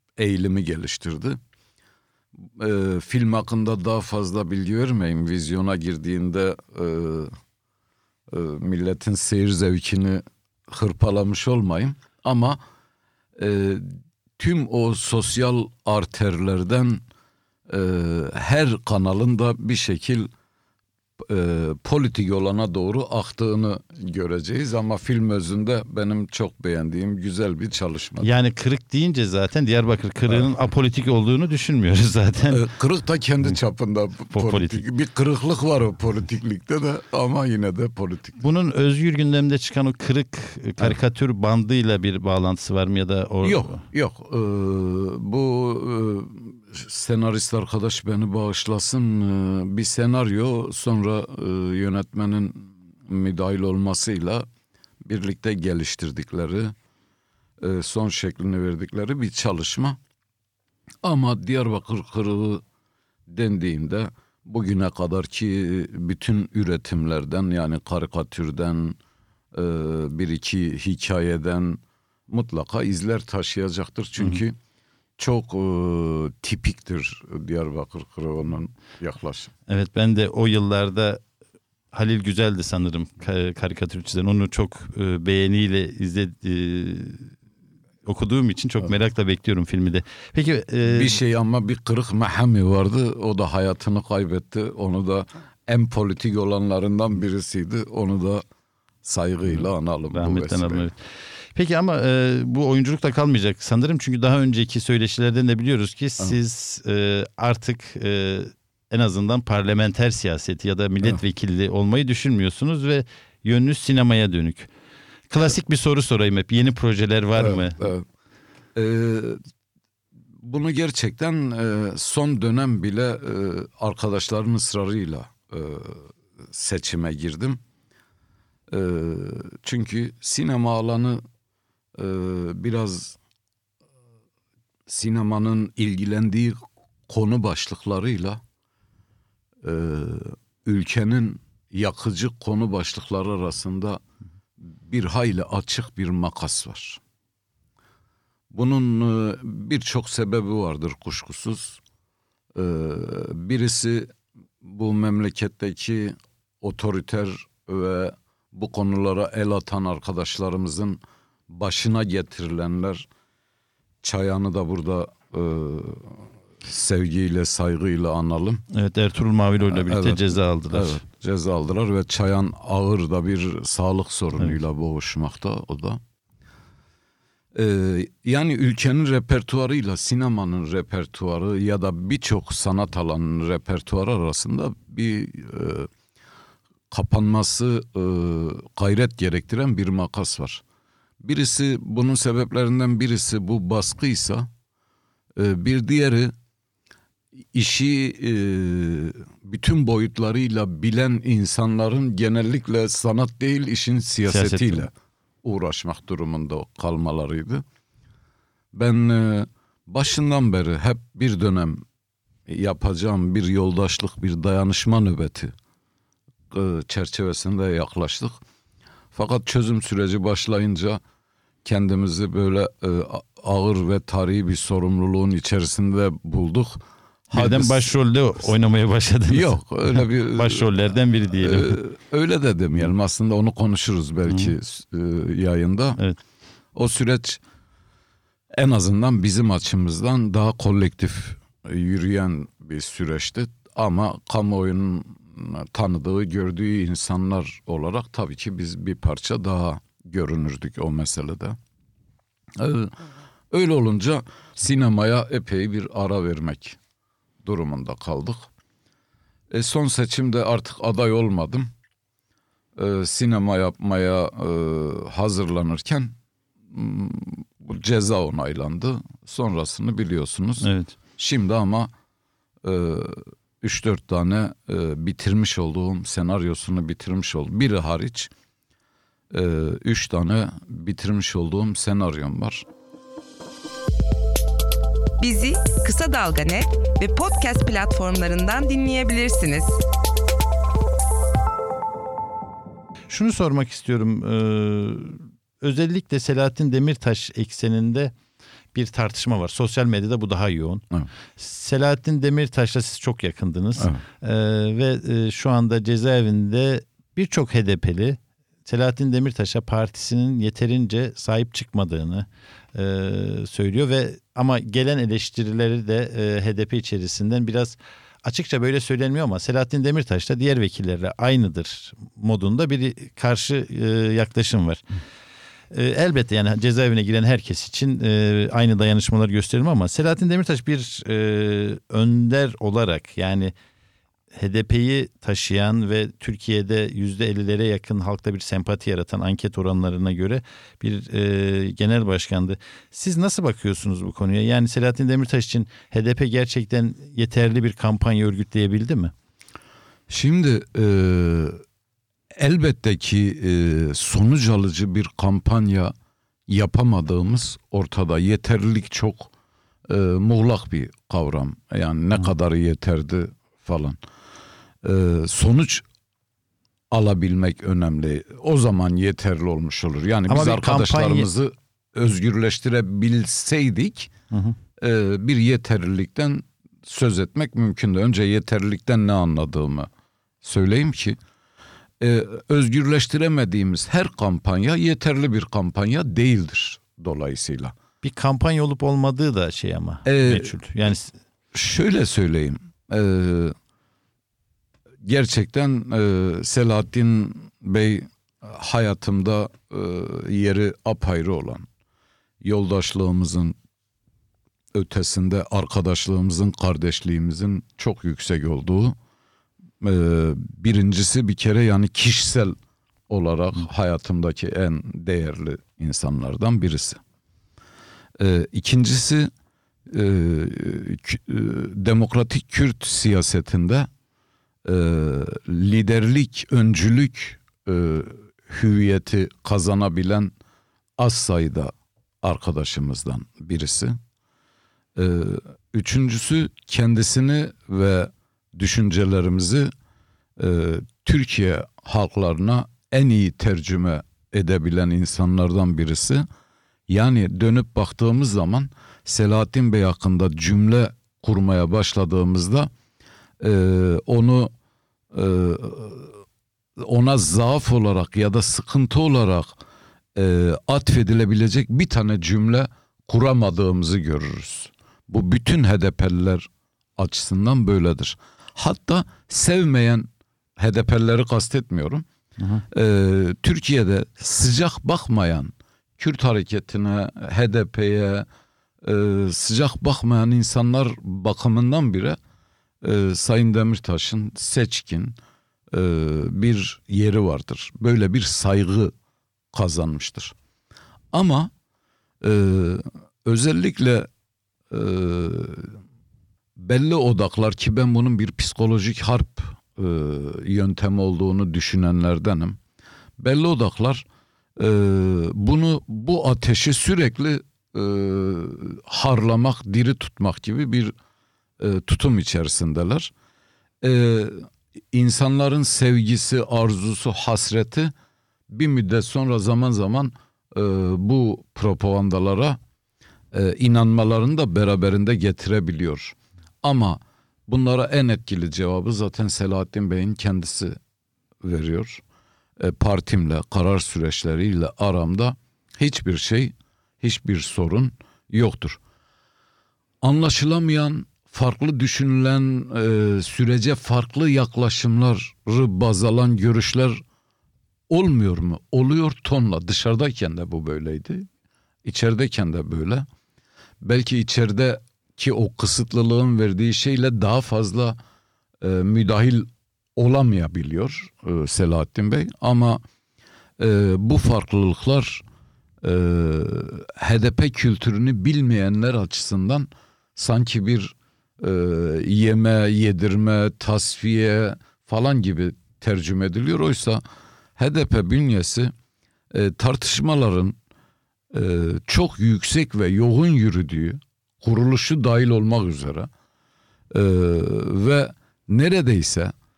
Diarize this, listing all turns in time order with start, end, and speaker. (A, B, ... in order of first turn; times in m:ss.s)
0:00.2-0:01.4 A
0:02.6-0:07.4 A
0:08.3-0:12.6 A
0:13.4-0:17.0 A
0:17.7-0:20.3 A
0:21.2-0:28.3 A
0:28.2-0:32.6 B
0:32.5-0:38.4 A
0:34.3-0:34.8 B
0:38.4-0:43.8 B
0:43.4-0:54.5 A
0:55.0-0:56.8 A
0:57.6-1:00.0 A
1:01.0-1:02.6 A
1:03.3-1:09.0 A
1:09.5-1:14.6 A
1:15.2-1:19.5 A
1:19.7-1:21.2 B
1:21.9-1:27.3 B
1:28.0-1:31.2 B
1:30.8-1:38.4 A
1:39.0-1:40.9 A
1:39.6-1:41.0 B
1:41.5-1:54.7 B
1:55.3-1:57.9 B
1:57.4-1:58.0 A
1:58.8-1:59.4 A
2:00.4-2:07.6 A
2:08.7-2:11.2 A
2:12.0-2:13.2 A
2:14.9-2:18.4 A
2:19.6-2:24.0 A
2:24.8-2:27.0 A
2:28.5-2:31.8 A
2:32.6-2:43.1 A
2:44.0-2:48.6 A
2:48.7-2:51.0 B
2:49.7-2:56.0 A
2:57.5-3:05.9 A
3:06.9-3:10.6 A
3:11.2-3:14.5 A
3:15.4-3:16.3 A
3:17.5-3:24.9 A
3:24.3-3:24.9 B
3:25.4-3:27.6 A
3:28.7-3:31.8 A
3:32.5-3:35.5 A
3:36.5-3:38.4 A
3:39.1-3:41.0 A
3:41.6-3:47.9 A
3:47.3-3:51.8 B
3:49.3-3:50.7 A
3:51.4-3:56.0 A
3:56.8-3:57.4 A
3:58.5-4:11.6 A
4:12.6-4:13.0 A
4:13.5-4:16.8 A
4:17.4-4:18.5 A
4:19.5-4:21.7 A
4:22.8-4:26.2 A
4:26.7-4:31.9 A
4:30.6-4:30.9 B
4:32.6-4:38.3 A
4:39.3-4:42.6 A
4:45.2-4:49.8 C
4:53.1-4:58.1 B
4:58.7-5:00.8 B
5:01.4-5:24.9 B
5:03.8-5:04.0 A
5:25.7-5:33.5 B
5:34.3-5:49.1 B
5:50.1-5:51.6 A
5:52.4-5:55.9 A
5:56.5-5:59.3 A
5:59.9-6:04.0 A
6:04.8-6:05.8 A
6:06.9-6:14.1 A
6:10.3-6:11.3 B
6:14.8-6:19.9 A
6:20.4-6:21.2 A
6:22.0-6:27.8 A
6:28.0-6:31.1 B
6:30.0-6:30.6 A
6:31.5-6:33.6 A
6:35.0-6:41.7 A
6:42.4-6:43.6 A
6:44.7-6:49.0 A
6:49.8-6:52.6 A
6:53.1-6:57.0 A
6:58.2-6:59.3 A
6:59.9-7:03.9 A
7:04.6-7:10.3 A
7:11.0-7:14.0 A
7:15.0-7:19.7 A
7:20.4-7:26.3 A
7:26.9-7:32.7 A
7:33.4-7:34.5 A
7:35.1-7:36.2 A
7:36.8-7:39.6 A
7:40.2-7:52.0 A
7:52.4-7:52.6 B
7:52.7-7:58.3 A
7:58.8-8:02.2 A
8:02.8-8:05.2 A
8:05.7-8:08.9 A
8:09.5-8:10.4 A
8:11.1-8:11.5 A
8:12.2-8:14.1 A
8:14.7-8:15.8 A
8:16.6-8:22.6 A
8:23.2-8:24.1 A
8:24.6-8:30.9 A
8:31.6-8:33.1 A
8:33.8-8:37.9 A
8:38.5-8:42.6 A
8:43.3-8:50.8 A
8:51.4-8:52.0 A
8:52.6-8:58.8 A
9:00.0-9:07.0 A
9:07.9-9:11.3 A
9:11.8-9:13.1 A
9:13.8-9:18.0 A
9:18.6-9:22.8 A
9:23.6-9:25.2 A
9:25.8-9:37.0 A
9:37.6-9:38.7 A
9:39.3-9:40.6 A
9:41.3-9:46.1 A
9:46.9-9:49.3 A